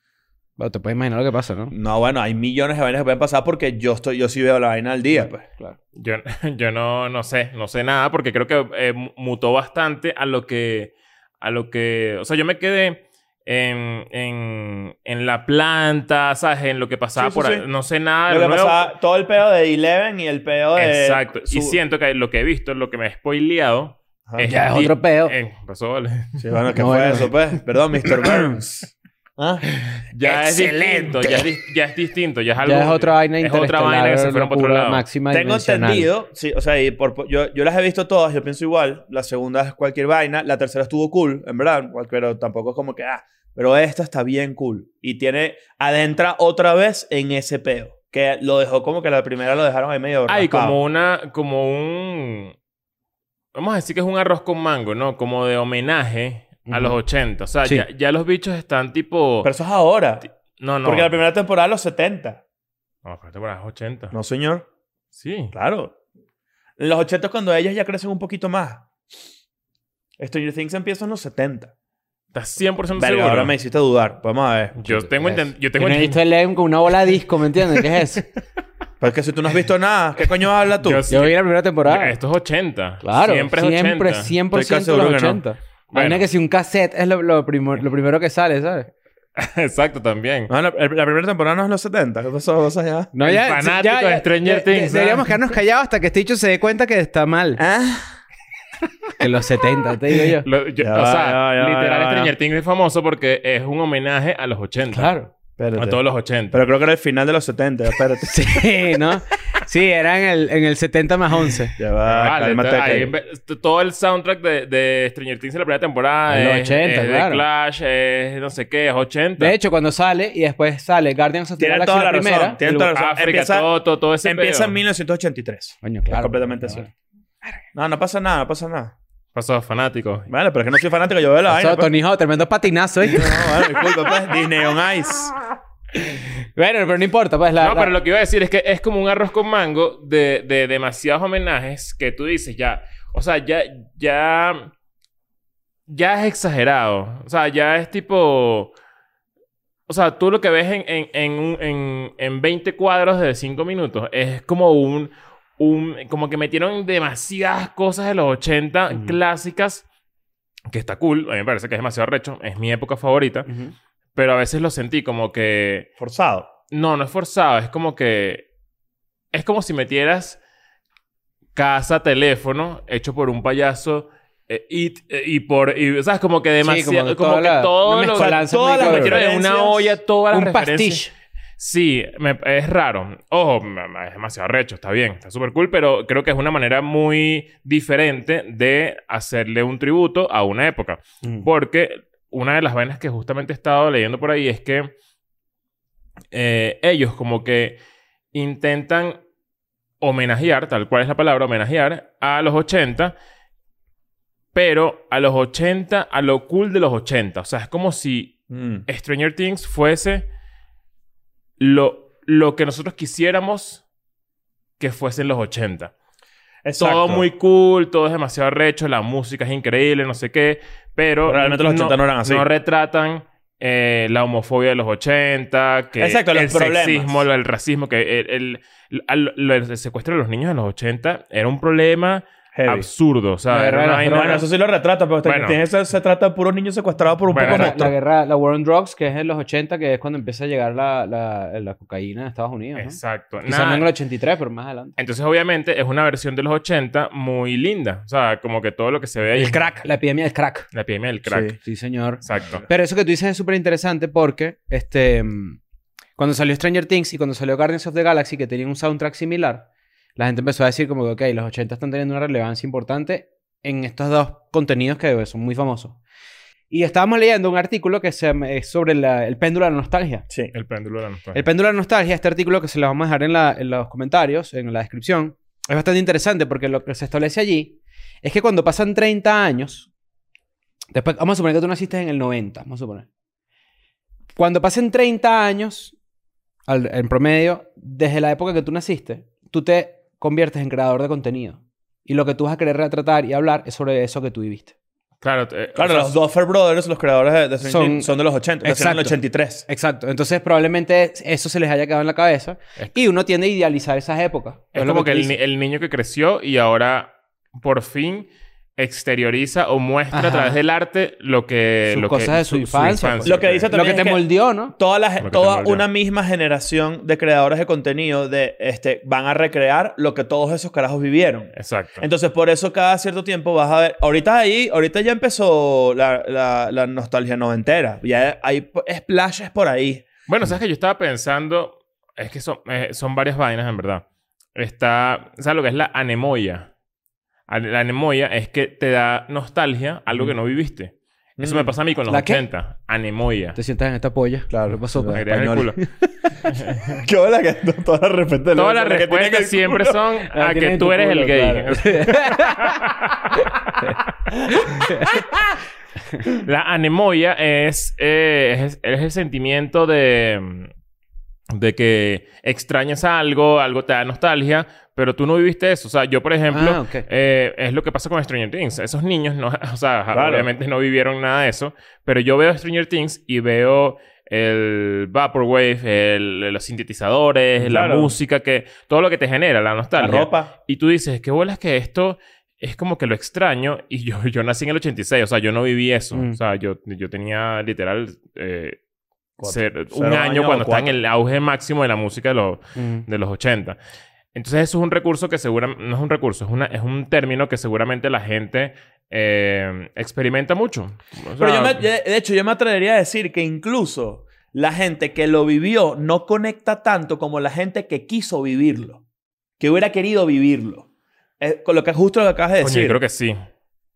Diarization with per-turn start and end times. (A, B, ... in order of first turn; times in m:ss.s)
0:00.6-0:01.7 A
0:01.7-0:05.4 B
0:05.2-0:05.8 A
0:06.0-0:18.9 C
0:17.2-0:17.7 B
0:18.3-0:21.8 B
0:20.8-0:26.4 C
0:24.3-0:24.5 B
0:24.4-0:25.4 A
0:26.4-0:29.7 B
0:26.7-0:27.4 A
0:28.2-0:28.6 A
0:29.8-0:35.0 C
0:30.2-0:31.5 B
0:32.6-0:36.1 A
0:35.3-0:50.8 B
0:50.3-0:52.6 C
0:53.5-0:59.5 C
0:56.7-0:57.0 A
0:59.4-1:00.3 B
1:00.6-1:01.2 C
1:00.8-1:02.4 B
1:03.0-1:04.2 C
1:04.1-1:04.7 B
1:05.2-1:05.5 C
1:05.5-1:06.0 B
1:06.8-1:08.8 B
1:10.2-1:11.7 B
1:12.3-1:13.5 C
1:13.0-1:15.1 B
1:14.8-1:16.2 C
1:15.2-1:18.2 A
1:19.0-1:21.0 B
1:20.8-1:21.3 C
1:21.1-1:22.2 A
1:21.8-1:24.3 C
1:23.0-1:28.9 A
1:24.5-1:25.4 B
1:25.9-1:26.3 C
1:29.4-1:30.5 C
1:30.5-1:33.1 B
1:33.1-1:37.6 A
1:33.2-1:35.4 C
1:37.6-1:38.0 B
1:39.2-1:40.5 A
1:40.4-1:45.1 C
1:40.8-1:42.3 B
1:44.9-1:45.3 A
1:45.6-1:48.6 B
1:45.8-1:46.6 C
1:48.2-1:51.8 A
1:51.8-1:53.1 B
1:52.1-1:59.6 C
1:56.3-1:57.4 A
1:59.4-2:02.9 A
2:01.6-2:03.7 B
2:02.9-2:04.8 C
2:04.2-2:06.9 B
2:05.8-2:06.9 A
2:07.7-2:08.9 B
2:09.4-2:10.3 C
2:10.3-2:11.9 B
2:11.5-2:13.8 A
2:13.0-2:15.5 B
2:16.6-2:17.9 A
2:17.6-2:24.7 C
2:25.9-2:28.7 C
2:29.9-2:39.8 C
2:40.7-2:43.5 C
2:43.5-2:43.7 A
2:44.2-2:45.9 C
2:46.0-2:46.5 B
2:46.7-2:48.5 C
2:49.3-2:50.4 C
2:51.5-3:01.0 C
2:56.6-2:59.2 A
2:58.1-3:00.0 B
3:00.3-3:01.1 A
3:01.6-3:14.9 C
3:16.3-3:17.8 C
3:18.3-3:19.2 C
3:20.0-3:23.2 C
3:24.5-3:30.3 C
3:28.5-3:28.8 B
3:31.6-3:33.8 C
3:34.8-3:35.9 C
3:36.6-3:37.2 B
3:36.8-3:54.5 C
3:41.3-3:42.4 B
3:46.0-3:47.2 B
3:52.6-3:52.9 B
3:53.5-3:54.4 A
3:54.1-3:57.9 B
3:55.2-3:55.6 C
3:57.3-3:57.9 C
3:57.4-4:05.0 A
4:02.8-4:03.9 C
4:05.0-4:09.7 C
4:09.4-4:09.8 B
4:09.8-4:10.7 A
4:10.7-4:11.6 C
4:11.3-4:11.6 B
4:11.6-4:15.6 A
4:12.2-4:12.6 C
4:16.2-4:26.0 A
4:26.7-4:30.2 A
4:30.5-4:31.4 C
4:31.3-4:39.9 A
4:40.9-4:43.1 A
4:44.4-4:46.0 A
4:46.7-4:54.7 A
4:55.2-4:56.2 C
4:55.8-4:59.7 B
4:57.6-4:58.1 A
4:58.6-5:05.3 A
5:04.7-5:13.7 C
5:10.1-5:10.6 A
5:11.9-5:14.8 A
5:13.2-5:30.1 B
5:15.2-5:15.8 C
5:21.5-5:22.0 C
5:30.3-5:36.7 C
5:37.5-5:43.6 C
5:41.4-5:41.7 B
5:42.1-5:42.4 A
5:43.6-5:46.0 A
5:44.5-5:45.7 B
5:45.1-5:45.8 C
5:46.5-5:46.9 C
5:46.8-5:50.0 B
5:48.6-5:54.0 C
5:50.3-5:52.8 A
5:54.3-5:55.1 A
5:56.4-6:00.7 C
6:01.5-6:28.8 C
6:06.5-6:07.1 A
6:10.1-6:10.5 B
6:17.6-6:18.2 B
6:20.0-6:20.5 B
6:26.1-6:26.4 A
6:29.4-6:31.0 B
6:29.4-6:33.8 C
6:32.8-6:33.1 A
6:34.3-6:41.8 C
6:41.4-6:49.0 B
6:49.6-6:50.9 B
6:51.4-6:53.0 B
6:52.6-6:53.4 C